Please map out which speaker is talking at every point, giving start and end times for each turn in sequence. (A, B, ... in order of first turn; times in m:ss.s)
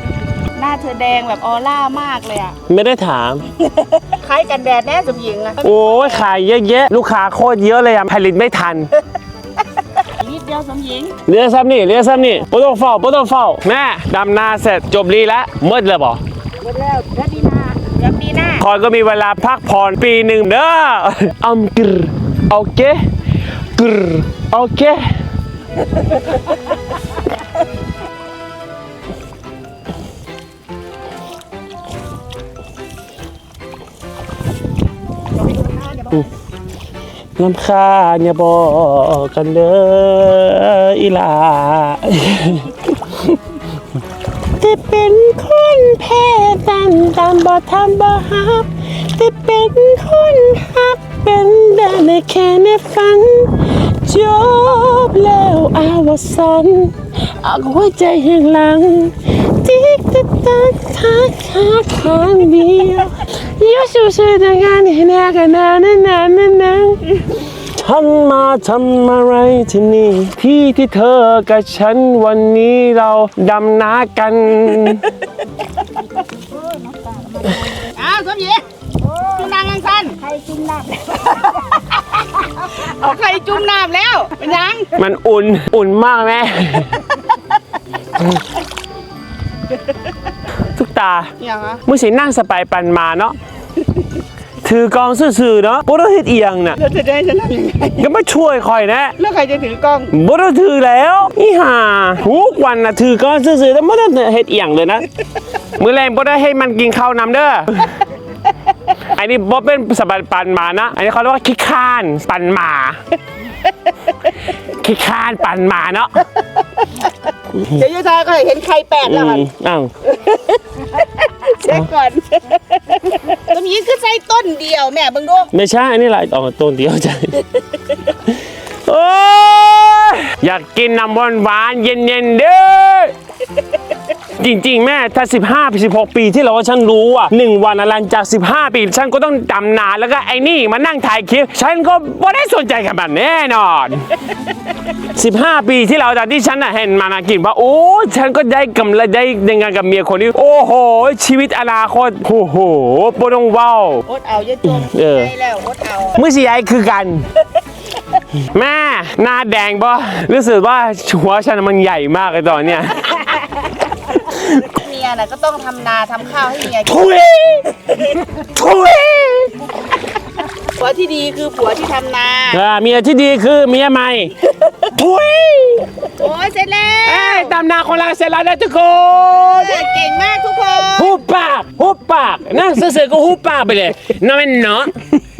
0:00.5-0:02.6 A
0:02.7-0:03.4 B
0:03.7-0:06.2 A
0:05.6-0:08.9 B
0:10.2-0:11.1 A
0:11.3-0:16.2 B
0:16.6-0:17.9 C
0:17.9-0:18.6 A
0:18.6-0:23.0 B
0:23.7-0:25.2 B
0:35.3-0:36.3 A
0:37.4-0:43.4 B
0:44.6-1:07.1 B
1:07.6-1:15.1 B
1:16.3-1:17.8 C
1:17.9-1:18.6 A
1:19.0-1:19.5 C
1:19.3-1:20.2 A
1:20.2-1:22.9 C
1:22.8-1:24.9 A
1:24.9-1:27.0 B
1:30.7-1:31.3 B
1:31.4-1:31.8 A
1:31.8-1:33.4 B
1:34.6-1:36.8 B
1:36.8-1:38.1 A
1:38.0-1:39.1 B
1:39.2-1:40.1 A
1:40.1-1:45.0 B
1:45.8-1:47.9 B
1:49.1-1:53.0 B
1:54.6-1:56.2 B
1:56.8-1:57.0 A
1:57.7-1:59.4 A
1:59.0-1:59.9 B
2:00.0-2:05.5 A
2:05.5-2:07.4 B
2:08.8-2:13.1 B
2:14.4-2:24.1 B
2:25.1-2:34.0 B
2:34.0-2:36.2 A
2:34.6-2:35.3 B
2:36.1-2:37.3 B
2:38.5-2:43.3 B
2:44.2-2:44.7 B
2:44.6-2:47.1 A
2:46.8-2:49.5 B
2:50.8-2:52.6 A
2:52.5-2:54.4 B
2:54.9-2:55.9 B
2:56.2-2:57.5 A
2:57.0-2:59.9 B
2:59.5-3:01.2 A
3:01.0-3:04.9 B